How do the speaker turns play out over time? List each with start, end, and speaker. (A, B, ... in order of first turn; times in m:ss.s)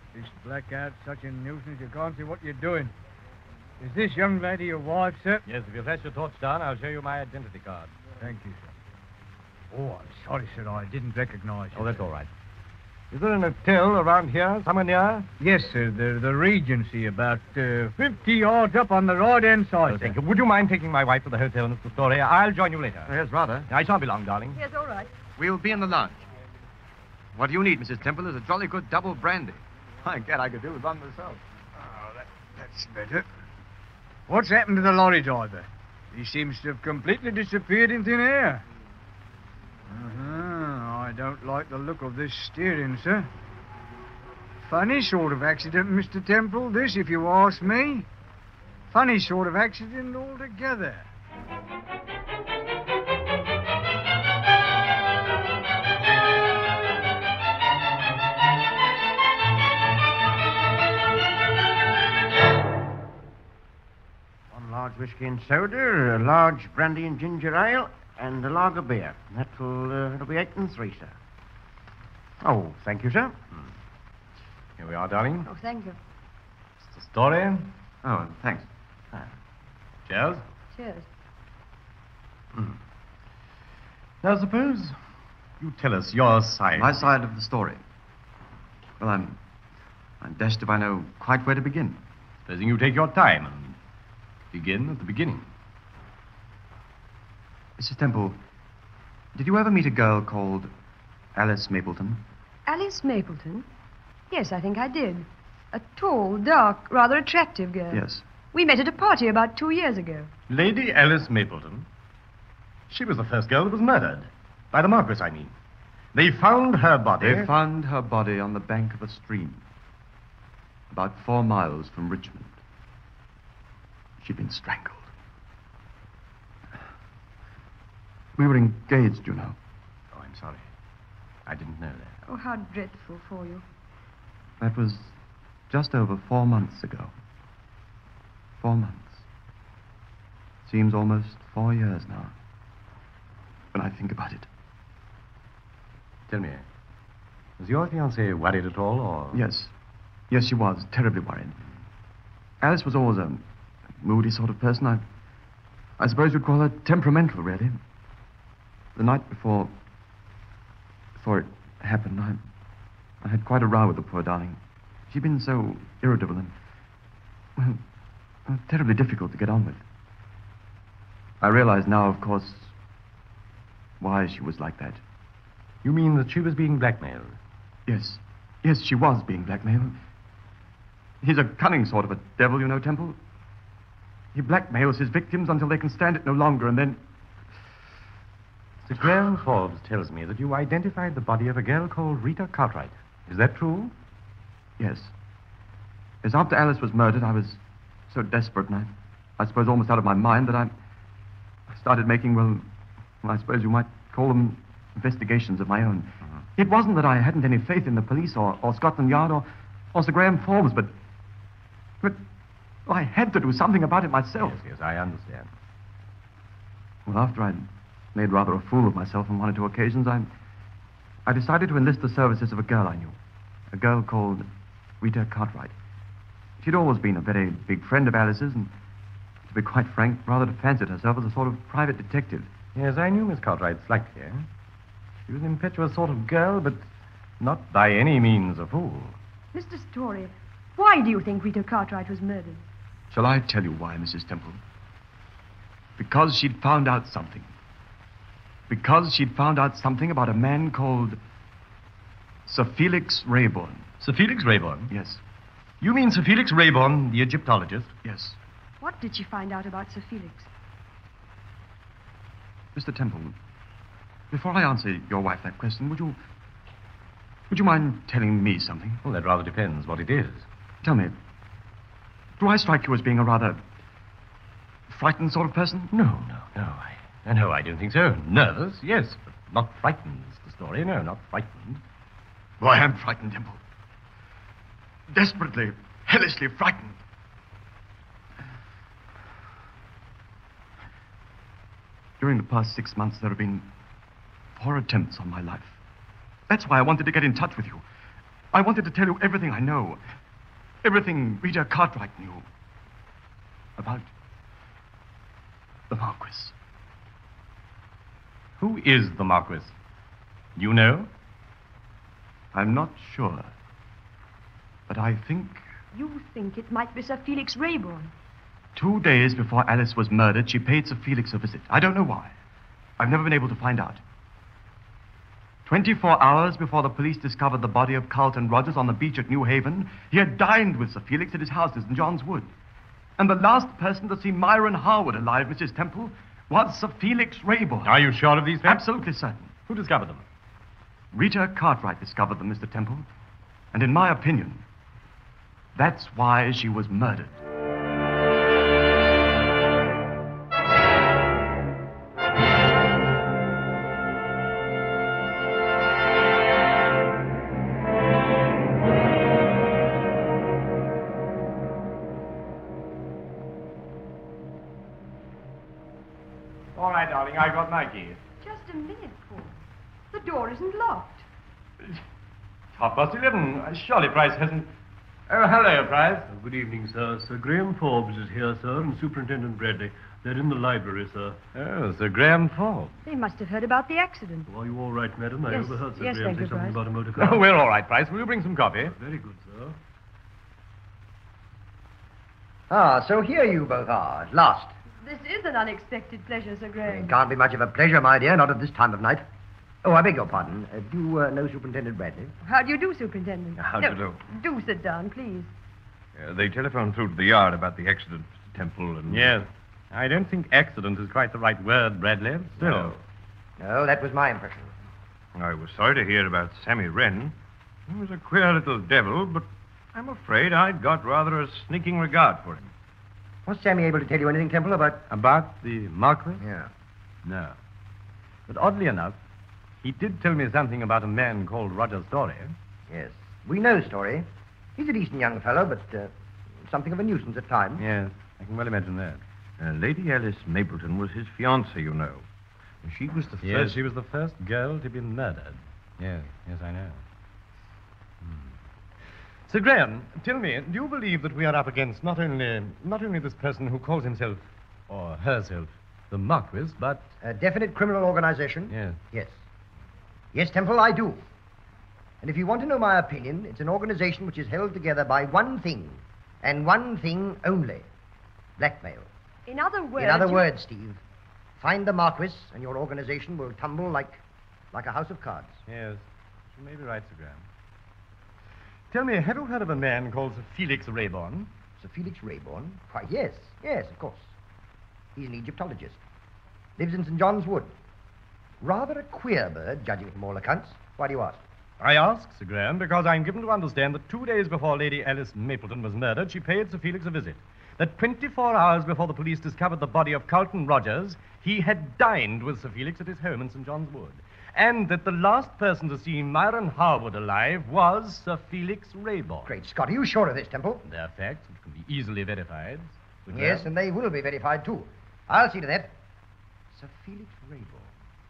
0:00.1-0:02.9 A
0:03.8-0:05.4 A
0:05.4-0:07.9 B
0:08.2-0:08.7 A
0:09.7-0:11.9 A
0:11.7-0:12.3 B
0:13.1-0:15.3 B
0:15.4-0:20.1 A
0:19.8-0:23.1 B
0:23.1-0:23.7 C
0:23.7-0:24.6 B
0:24.5-0:25.1 D
0:25.4-0:26.3 C
0:27.4-0:31.4 C
0:31.8-0:33.2 A
0:34.3-0:38.6 A
0:39.9-0:43.3 A
0:44.6-0:48.0 A
0:48.9-0:51.0 A
1:04.5-1:11.1 E
1:12.4-1:13.6 B
1:14.8-1:15.5 B
1:15.4-1:16.0 D
1:16.8-1:17.7 B
1:18.0-1:18.7 C
1:20.0-1:20.4 B
1:20.7-1:21.1 D
1:24.2-1:25.0 B
1:25.6-1:27.1 B
1:26.7-1:27.8 C
1:29.0-1:29.4 C
1:30.2-1:32.0 C
1:32.4-1:33.8 B
1:34.5-1:35.5 B
1:37.8-1:38.4 C
1:39.3-1:40.7 C
1:41.4-1:42.2 C
1:42.7-1:43.7 D
1:44.3-1:50.3 D
1:47.9-1:48.2 C
1:50.5-1:51.8 B
1:52.9-1:55.5 B
1:56.1-1:57.5 B
1:57.2-1:59.6 C
2:00.9-2:02.6 C
2:04.2-2:05.1 C
2:08.4-2:09.6 C
2:10.1-2:10.6 B
2:11.4-2:12.1 B
2:12.3-2:13.6 D
2:14.6-2:15.2 C
2:15.7-2:17.1 C
2:18.6-2:19.2 C
2:20.6-2:22.3 C
2:23.7-2:24.5 C
2:26.3-2:26.6 B
2:27.6-2:29.4 B
2:29.3-2:29.7 C
2:30.3-2:31.6 C
2:32.6-2:33.4 C
2:34.0-2:35.0 C
2:36.0-2:37.8 C
2:39.0-2:39.7 C
2:41.2-2:42.4 C
2:43.2-2:44.6 C
2:45.1-2:46.5 C
2:48.5-2:49.8 C
2:51.4-2:52.7 C
2:54.0-2:55.0 C
2:55.8-2:57.4 B
2:57.9-3:00.0 C
3:01.2-3:03.2 C
3:04.3-3:07.0 C
3:08.8-3:13.9 B
3:14.8-3:15.1 C
3:16.2-3:20.7 C
3:21.7-3:22.6 C
3:23.2-3:30.9 C
3:32.8-3:34.6 C
3:34.4-3:35.5 B
3:37.1-3:40.3 C
3:41.2-3:43.2 C
3:43.7-3:44.5 C
3:45.0-3:45.7 C
3:46.6-3:48.7 C
3:49.5-3:52.5 C
3:52.7-3:54.4 B
3:55.3-3:56.8 B
3:57.4-3:59.2 B
3:59.5-4:02.6 D
4:03.1-4:04.6 C
4:06.0-4:07.5 C
4:08.7-4:11.2 C
4:12.4-4:13.9 C
4:14.0-4:14.9 B
4:14.9-4:15.2 C
4:15.8-4:17.9 B
4:18.0-4:18.4 C
4:18.8-4:20.5 D
4:22.7-4:23.4 C
4:24.3-4:26.2 C
4:27.5-4:29.0 C
4:29.0-4:30.4 B
4:30.8-4:31.2 C
4:32.4-4:33.6 C
4:34.9-4:35.9 C
4:35.9-4:41.8 B
4:42.6-4:43.6 C
4:45.1-4:47.0 C
4:52.2-4:53.7 C
4:54.6-4:55.8 C
4:56.5-4:57.8 C
4:58.5-5:00.0 C
5:00.8-5:02.4 C
5:03.8-5:04.1 C
5:05.9-5:06.5 C
5:08.6-5:09.7 B
5:10.6-5:11.1 B
5:12.5-5:13.5 C
5:14.9-5:15.6 C
5:15.9-5:18.1 D
5:18.8-5:22.3 C
5:23.0-5:24.0 C
5:25.6-5:32.5 C
5:33.2-5:38.0 C
5:37.8-5:38.8 B
5:38.6-5:39.5 C
5:39.7-5:40.2 B
5:41.1-5:43.1 C
5:43.7-5:44.6 C
5:45.8-5:47.4 C
6:06.7-6:08.2 B
6:08.4-6:09.6 D
6:10.1-6:11.2 D
6:12.7-6:14.7 B
6:15.3-6:16.3 B
6:16.3-6:21.4 F
6:21.5-6:22.9 B
6:23.0-6:24.5 D
6:24.5-6:27.4 F
6:25.4-6:26.8 D
6:27.1-6:28.9 B
6:28.9-6:29.8 F
6:32.7-6:34.7 G
6:35.0-6:37.2 D
6:36.8-6:39.2 G
6:39.8-6:42.3 G
6:42.4-6:45.5 D
6:46.2-6:49.1 H
6:49.1-6:53.0 B
6:52.6-6:52.9 G
6:53.6-6:54.7 G
6:55.4-6:57.3 H
6:58.0-6:59.4 H
7:00.0-7:02.5 H
7:03.4-7:05.0 G
7:05.1-7:06.4 B
7:06.4-7:06.7 G
7:07.2-7:07.5 B
7:08.5-7:09.2 B
7:09.8-7:12.5 B
7:12.9-7:16.1 G
7:16.6-7:17.8 G
7:17.8-7:19.2 B
7:22.8-7:23.3 E
7:23.4-7:27.0 B
7:28.2-7:28.5 B
7:29.5-7:37.0 B
7:37.2-7:39.3 G
7:38.7-7:39.0 B
7:40.3-7:41.2 G
7:42.2-7:47.9 G
7:48.6-7:49.1 G
7:49.5-7:50.5 D
7:50.0-7:51.0 G
7:51.6-7:55.6 G
7:55.7-7:57.4 B
7:58.9-8:01.5 B
8:01.8-8:04.3 G
8:05.2-8:06.0 G
8:06.8-8:07.7 G
8:08.6-8:11.4 G
8:11.8-8:29.5 B
8:29.4-8:30.8 G
8:30.8-8:33.7 B
8:33.3-8:35.9 G
8:36.7-8:37.9 G